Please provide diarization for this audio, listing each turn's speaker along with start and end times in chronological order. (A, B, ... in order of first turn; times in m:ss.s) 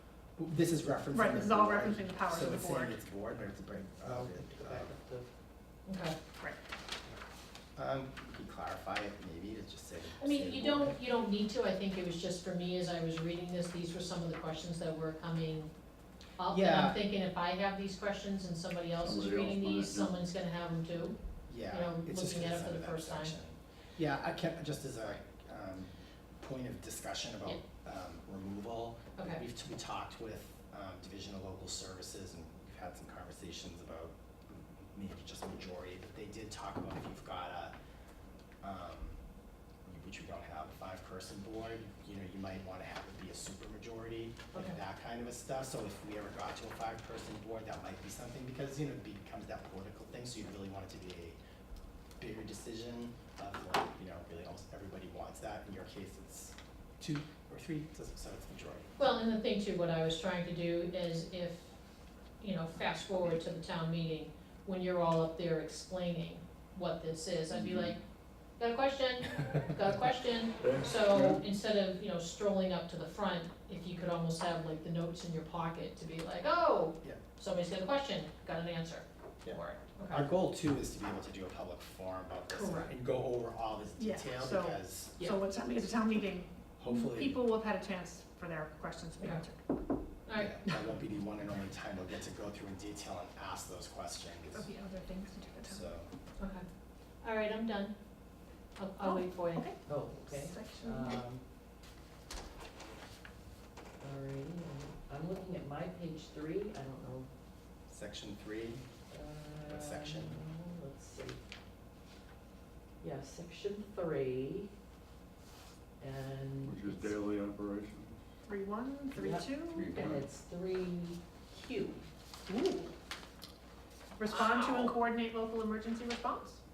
0:00.4-0:04.9 A
0:01.1-0:03.0 B
0:04.0-0:05.3 C
0:05.8-0:06.2 D
0:07.8-0:11.0 A
0:10.2-0:15.7 D
0:16.4-0:23.4 D
0:16.5-0:17.0 A
0:19.0-0:20.2 E
0:21.5-0:37.7 A
0:29.2-0:29.4 D
0:38.6-0:39.2 A
0:39.9-0:51.4 A
0:44.5-0:44.8 D
0:52.2-0:58.9 A
0:59.0-1:01.8 D
1:02.4-1:08.0 D
1:07.6-1:07.9 E
1:08.6-1:20.2 D
1:10.6-1:11.4 E
1:19.4-1:25.2 A
1:22.5-1:22.9 D
1:24.0-1:29.6 B
1:26.8-1:27.4 A
1:30.3-1:30.6 D
1:30.4-1:34.7 A
1:34.5-1:35.8 B
1:35.6-1:36.1 A
1:36.4-1:36.6 D
1:37.2-1:38.0 D
1:38.8-1:39.7 D
1:39.0-1:41.2 B
1:39.8-1:41.4 C
1:44.0-1:47.3 C
1:47.9-1:48.8 A
1:49.1-1:51.4 C
1:49.6-1:50.4 A
1:53.0-1:54.7 C
1:56.0-1:57.2 C
1:56.6-1:58.2 E
1:58.5-2:00.0 B
1:59.1-2:02.0 C
1:59.7-2:00.2 E
2:02.5-2:02.9 B
2:04.2-2:06.6 B
2:04.3-2:04.9 D